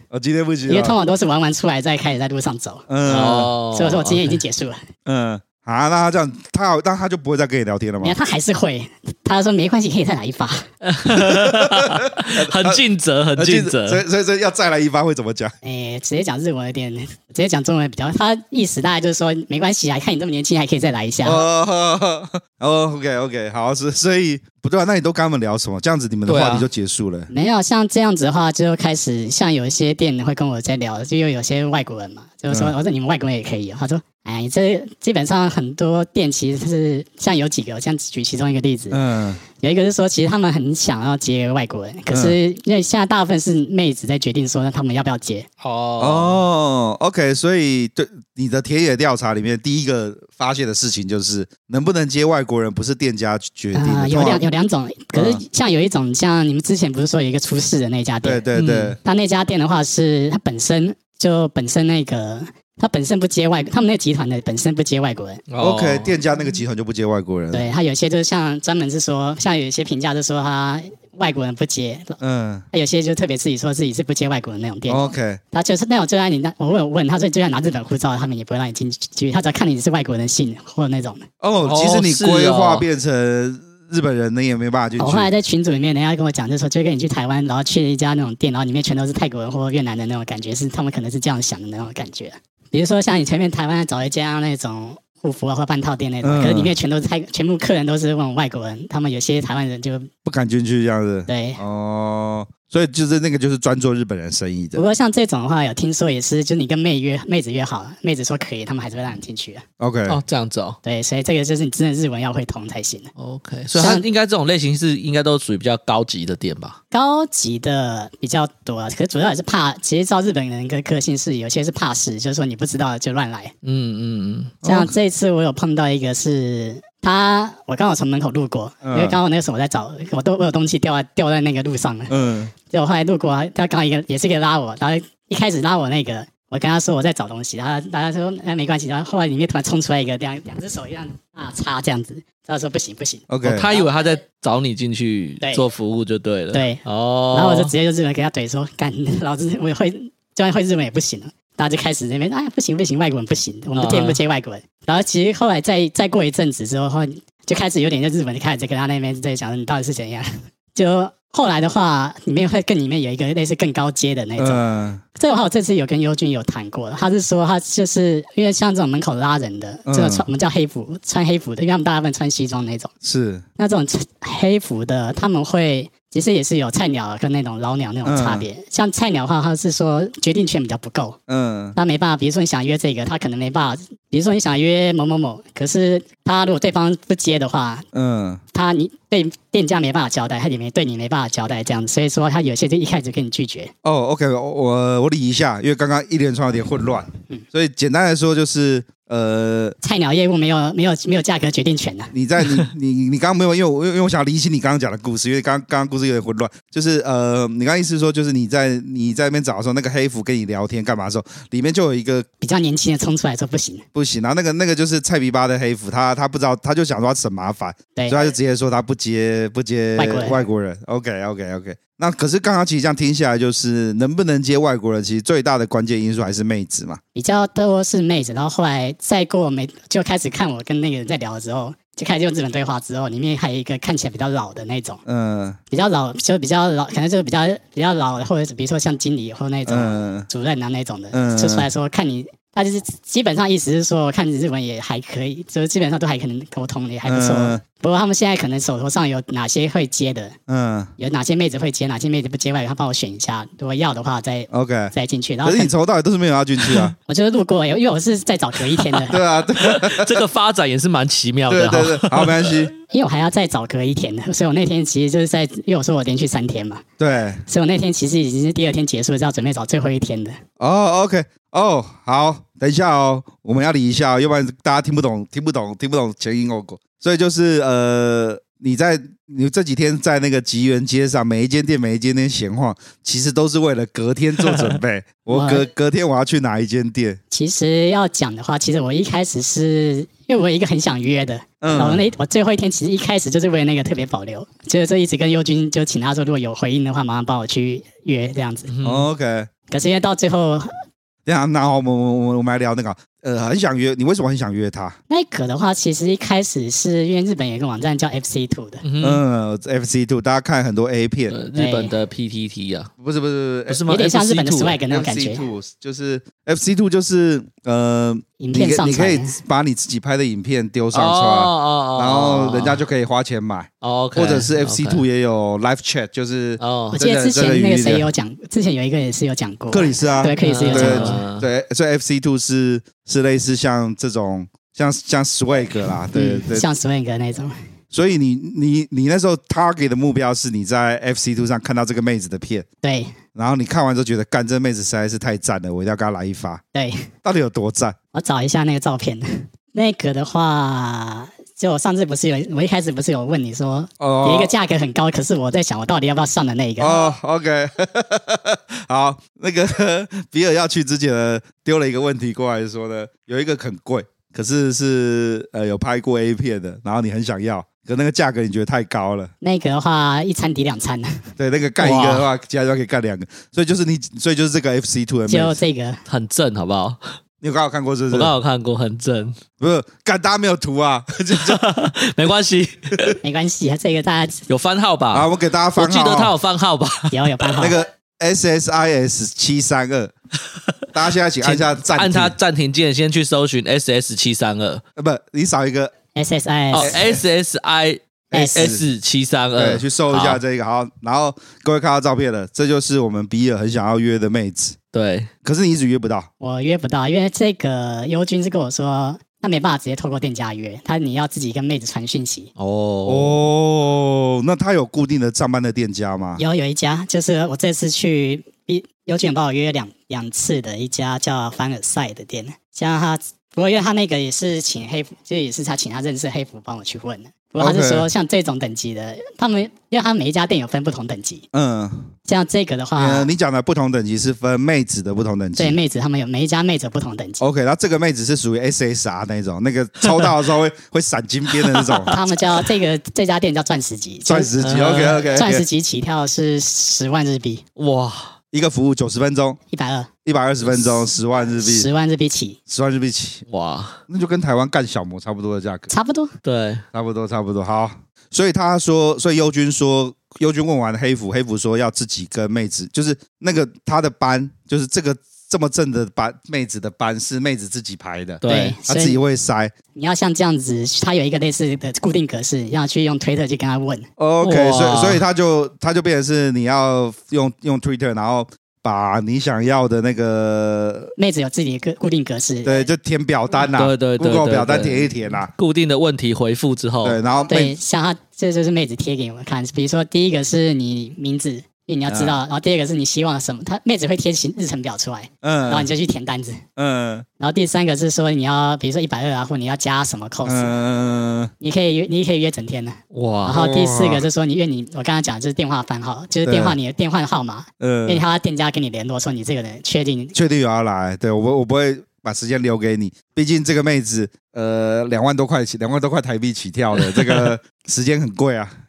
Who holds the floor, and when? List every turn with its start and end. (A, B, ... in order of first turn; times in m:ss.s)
0:00.1-0:01.0 A
0:00.7-0:02.9 B
0:02.9-0:03.5 A
0:03.1-0:04.4 C
0:03.7-0:04.8 B
0:05.0-0:08.2 A
0:08.0-0:10.6 B
0:10.8-0:14.0 C
0:11.1-0:12.8 A
0:13.4-0:15.5 A
0:15.6-0:21.4 B
0:21.2-0:27.3 A
0:26.3-0:26.7 C
0:27.3-0:39.0 B
0:32.5-0:32.7 A
0:38.9-0:39.4 A
0:39.6-0:45.5 B
0:42.1-0:42.4 A
0:45.6-0:46.4 C
0:46.0-0:54.5 A
0:53.7-0:58.4 B
0:55.2-0:55.4 A
0:58.2-0:59.0 A
0:58.6-0:59.0 C
0:59.0-1:05.4 B
1:05.5-1:06.2 C
1:05.6-1:07.7 A
1:07.5-1:12.2 B
1:12.2-1:12.6 A
1:12.7-1:21.2 B
1:14.9-1:15.4 A
1:21.4-1:25.3 A
1:21.6-1:22.8 C
1:25.0-1:40.1 B
1:36.2-1:36.7 A
1:40.2-1:44.8 A
1:41.3-1:41.6 B
1:44.7-1:49.6 B
1:49.8-1:50.2 A
1:50.1-1:50.8 C
1:50.8-1:53.1 B
1:53.2-1:56.8 C
1:53.7-1:54.0 B
1:56.9-2:03.5 B
2:03.6-2:04.6 C
2:04.6-2:04.9 A
2:04.6-2:12.2 B
2:08.8-2:09.2 A
2:12.1-2:12.5 A
2:12.7-2:23.9 B
2:23.3-2:23.7 A
2:23.4-2:27.7 C
2:25.4-2:25.6 B
2:26.5-2:44.6 B
2:33.7-2:34.2 C
2:44.4-2:45.0 A
2:45.2-2:52.9 B
2:49.9-2:50.3 A
2:53.0-2:53.4 A
2:53.6-3:01.2 B
2:58.0-2:58.5 A
3:01.3-3:01.8 A
3:01.8-3:07.8 B
3:07.9-3:08.4 A
3:08.5-3:13.7 B
3:13.8-3:19.8 A
3:19.8-3:22.1 B
3:22.1-3:32.3 A
3:32.4-3:33.8 B
3:33.9-3:47.0 A
3:37.9-3:38.3 B
3:40.0-3:40.4 B
3:47.1-3:55.0 B
3:55.0-3:55.6 A
3:55.7-4:10.4 B
3:59.6-4:00.3 A
4:01.1-4:01.7 A
4:07.0-4:07.6 A
4:10.5-4:10.9 A
4:11.0-4:15.7 B
4:14.5-4:14.9 A
4:15.4-4:16.9 A
4:17.1-4:19.2 B
4:19.1-4:20.2 A
4:19.6-4:22.6 C
4:21.5-4:22.7 A
4:22.9-4:26.8 B
4:27.0-4:27.4 A
4:27.5-4:30.4 B
4:30.6-4:47.2 A
4:45.3-4:45.7 B
4:47.3-4:58.7 B
4:51.6-4:52.0 A
4:58.7-4:59.1 C
4:58.8-4:59.5 A
4:59.7-5:00.7 B
5:01.2-5:05.0 A
5:05.1-5:08.8 B
5:08.8-5:09.2 C
5:09.0-5:11.3 A
5:11.3-5:12.9 C
5:11.5-5:12.0 B
5:13.0-5:13.8 A
5:13.7-5:14.8 C
5:13.9-5:15.4 B
5:14.9-5:28.1 A
5:18.4-5:19.4 B
5:20.9-5:22.8 C
5:23.8-5:25.0 C
5:26.6-5:27.0 C
5:26.9-5:31.2 B
5:29.7-5:36.6 A
5:30.4-5:31.5 C
5:36.1-5:37.5 B
5:37.9-5:42.6 A
5:42.8-5:43.1 B
5:43.4-5:46.6 A
5:46.7-5:47.0 B
5:47.2-5:48.0 A
5:48.1-5:57.1 B
5:54.0-5:54.5 A
5:56.8-6:09.3 A
6:09.4-6:11.1 B
6:11.4-6:15.6 A
6:11.8-6:12.2 C
6:15.3-6:16.0 B
6:16.0-6:17.0 C
6:17.4-6:18.3 A
6:18.1-6:19.4 C
6:19.6-6:21.6 A
6:21.3-6:23.2 C
6:23.2-6:24.4 B
6:24.5-6:27.2 C
6:25.1-6:26.3 A
6:27.1-6:27.8 B
6:27.6-6:30.1 A
6:30.9-6:32.3 A
6:31.4-6:34.8 C
6:35.0-6:35.9 A
6:36.1-6:36.9 B
6:36.7-6:40.4 C
6:36.8-6:37.2 A
6:38.3-6:38.8 A
6:38.3-6:38.7 B
6:39.6-6:44.8 A
6:44.9-6:45.3 C
6:45.4-6:46.3 A
6:46.4-6:52.5 B
6:52.6-6:53.4 C
6:53.0-6:56.4 A
6:56.4-7:11.4 B
7:07.6-7:08.1 A
7:11.5-7:12.1 A
7:12.3-7:13.3 B
7:13.0-7:15.8 A
7:15.6-7:17.4 B
7:17.4-7:22.1 A
7:21.7-7:22.2 C
7:22.1-7:24.5 B
7:24.2-7:25.6 A
7:24.6-7:25.2 C
7:25.2-7:27.6 B
7:27.8-7:28.3 C
7:28.5-7:29.6 A
7:29.7-7:30.1 B
7:30.2-7:31.9 A
7:31.5-7:32.6 B
7:32.7-7:33.4 A
7:33.5-7:34.0 C
7:34.1-7:35.9 A
7:35.9-7:36.3 B
7:36.4-7:36.8 C
7:36.9-7:49.7 A
7:48.4-7:48.8 C
7:48.4-7:49.2 B
7:49.9-7:54.0 B
7:54.2-8:01.1 A
7:54.4-7:55.2 C
8:01.2-8:02.9 B
8:02.6-8:05.5 A
8:03.7-8:07.2 C
8:07.0-8:07.8 A
8:07.5-8:16.6 B
8:12.1-8:12.4 A
8:15.4-8:15.9 A
8:16.8-8:17.2 A
8:17.4-8:20.7 B
8:20.4-8:21.5 A
8:21.6-8:30.3 B
8:23.1-8:23.6 C
8:23.5-8:24.2 A
8:26.4-8:26.8 A
8:27.8-8:28.2 A
8:30.3-8:38.7 A
8:37.0-8:37.4 C